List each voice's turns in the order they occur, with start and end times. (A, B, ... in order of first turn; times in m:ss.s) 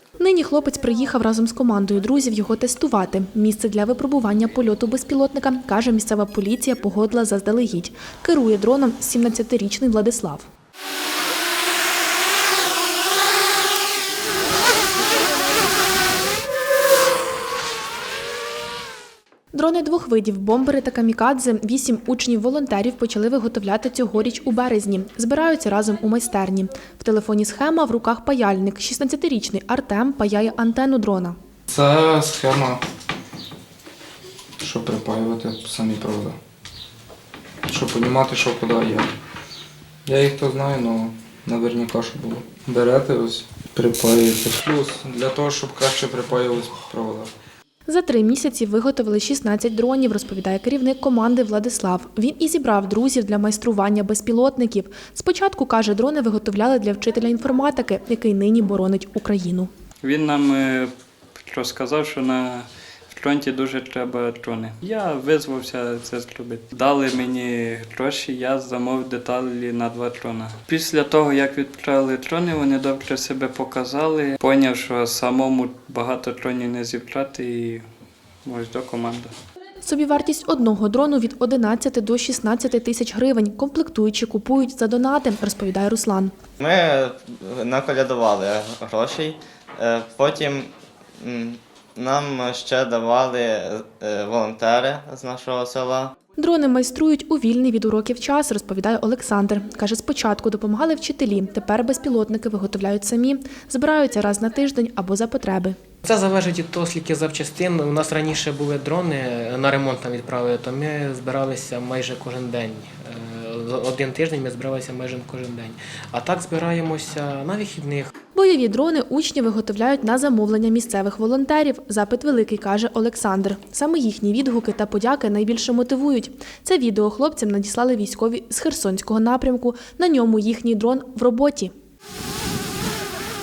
0:00.2-0:10.5 A
0:19.5-0:31.4 A
0:31.7-0:32.8 B
0:34.6-0:36.4 B
0:37.7-0:39.1 B
0:40.0-0:47.3 B
0:47.9-0:59.7 A
1:00.0-1:00.9 C
1:01.5-1:17.8 C
1:18.4-1:19.3 C
1:19.8-1:26.3 A
1:26.6-1:36.2 D
1:36.4-1:45.8 A
1:46.0-1:58.1 E
1:58.3-2:11.7 A